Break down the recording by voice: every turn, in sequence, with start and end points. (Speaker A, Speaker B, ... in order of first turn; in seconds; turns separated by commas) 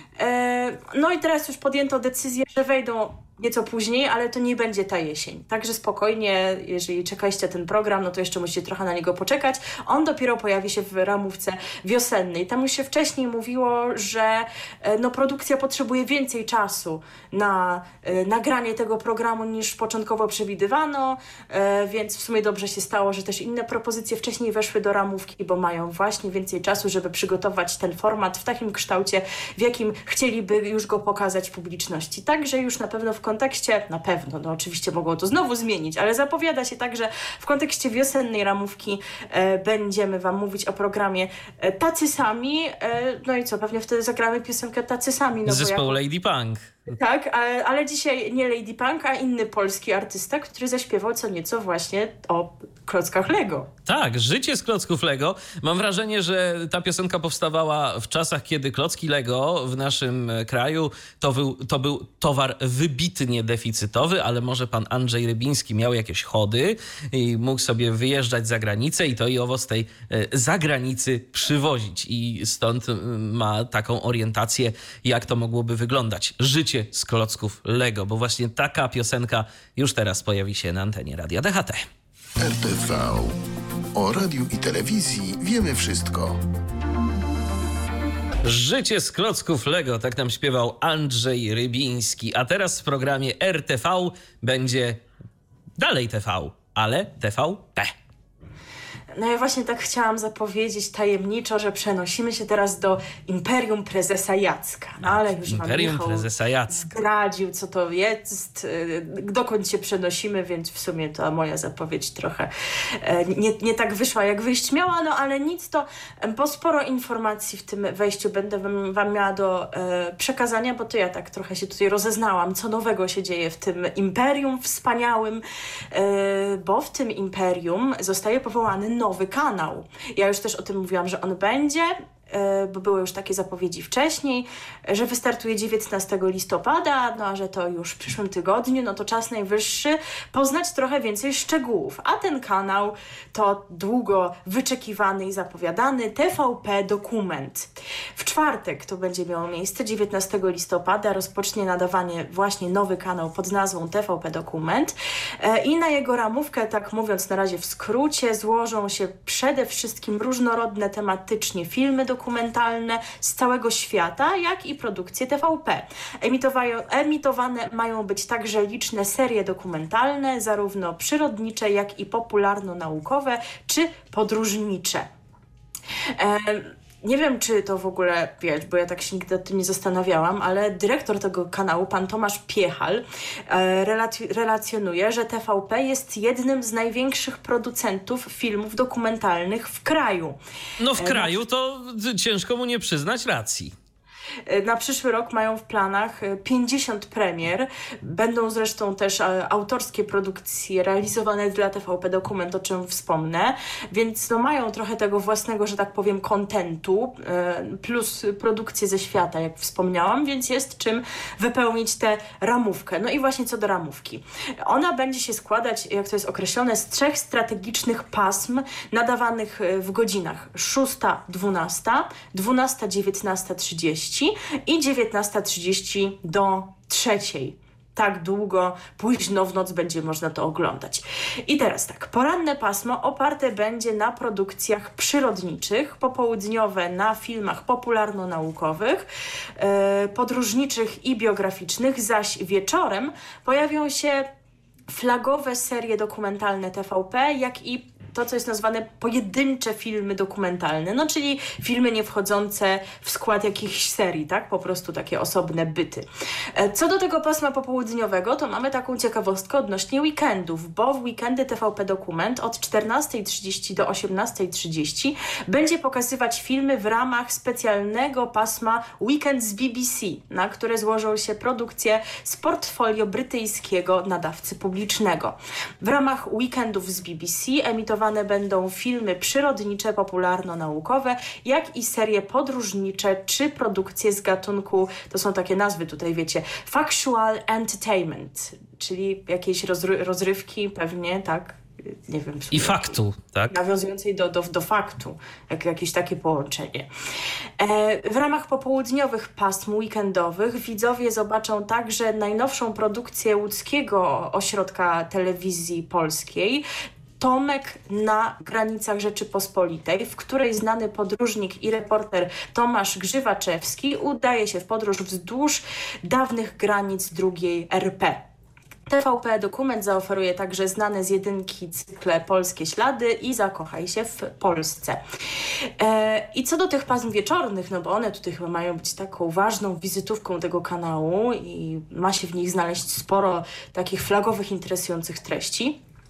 Speaker A: 0.2-46.0, Speaker B: 45.5-46.8, Speaker A: 46.9-53.7, Speaker B: 53.9-81.9, Speaker C: 82.4-83.4, Speaker C: 84.0-86.4, Speaker B: 88.4-95.0, Speaker B: 95.8-97.9, Speaker A: 99.2-175.1, Speaker B: 105.0-106.9, Speaker A: 176.2-190.4, Speaker B: 190.8-193.7, Speaker A: 190.9-191.4, Speaker A: 194.5-239.1, Speaker A: 239.6-244.3, Speaker A: 244.9-293.0, Speaker B: 292.5-293.6, Speaker A: 293.5-296.9, Speaker A: 297.6-306.6, Speaker A: 307.2-318.2, Speaker A: 318.9-325.0, Speaker A: 325.8-335.8